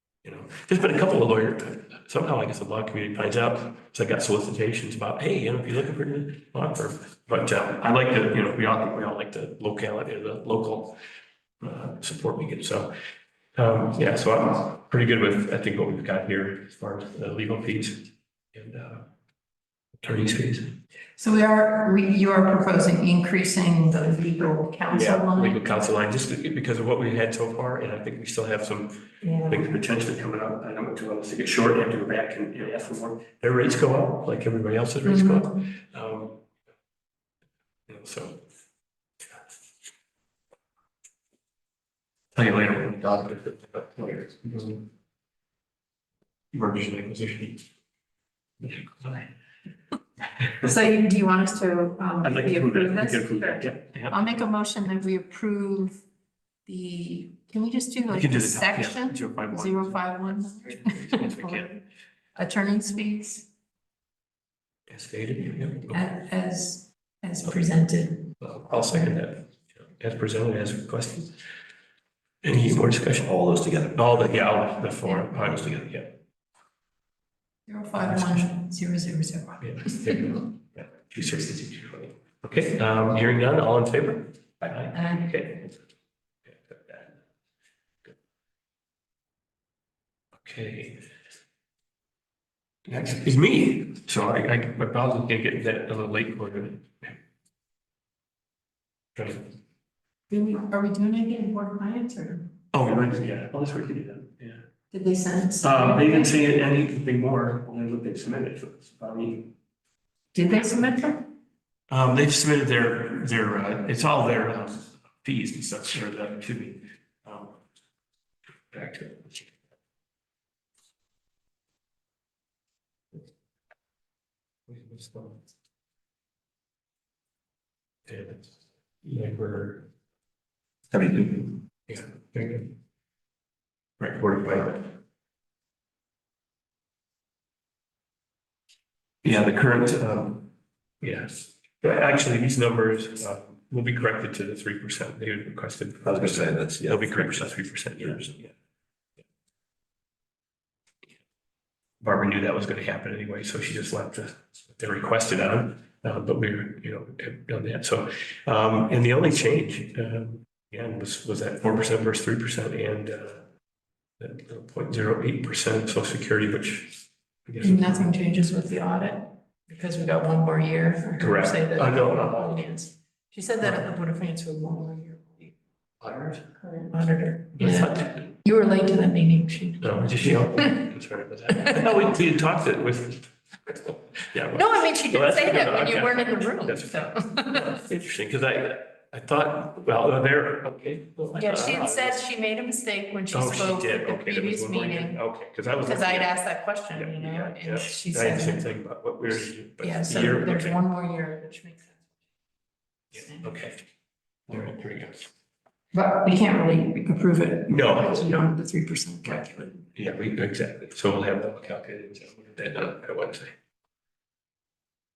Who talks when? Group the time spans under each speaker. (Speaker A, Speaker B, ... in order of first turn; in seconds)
Speaker A: 0.2-11.0, 11.6-12.9, 13.6-19.1, 20.0-20.8, 24.9-36.4, 37.9-38.4, 42.3-44.9, 46.5-47.6, 48.6-49.3, 52.2-54.4, 58.1-61.7, 64.9-66.1, 68.4-71.3, 72.4-73.3, 73.9-76.2, 78.0-78.5, 79.6-85.5, 86.5-87.1, 90.4-91.0, 92.9-97.2, 99.2-99.5, 102.7-104.6, 105.6-109.5, 111.9-117.6, 118.7-119.5, 124.7-125.4, 128.1-129.9, 131.9-132.7, 134.0-134.9, 139.2-140.5, 141.0-148.5, 152.0-163.4, 164.2-168.1, 171.2-172.6, 176.0-176.5, 177.5-178.3, 179.8-192.2, 193.3-196.3, 196.9-200.8, 203.1-203.8, 204.5-205.3, 207.7-208.4, 209.9-213.5
Speaker B: 21.2-25.6, 29.2-29.6, 35.0-35.5, 50.6-56.0, 56.6-61.8, 62.3-63.5, 65.9-68.3, 77.7-80.3, 84.9-85.7, 100.3-102.5, 104.9-106.4, 110.3-111.2, 167.6-175.5, 176.5-180.8, 181.6-182.0, 184.5-187.8, 191.3-195.2, 195.8-198.7, 199.8-202.0, 203.1-203.4, 205.9-209.9
Speaker C: 73.2-74.0, 130.9-131.5, 146.0-147.5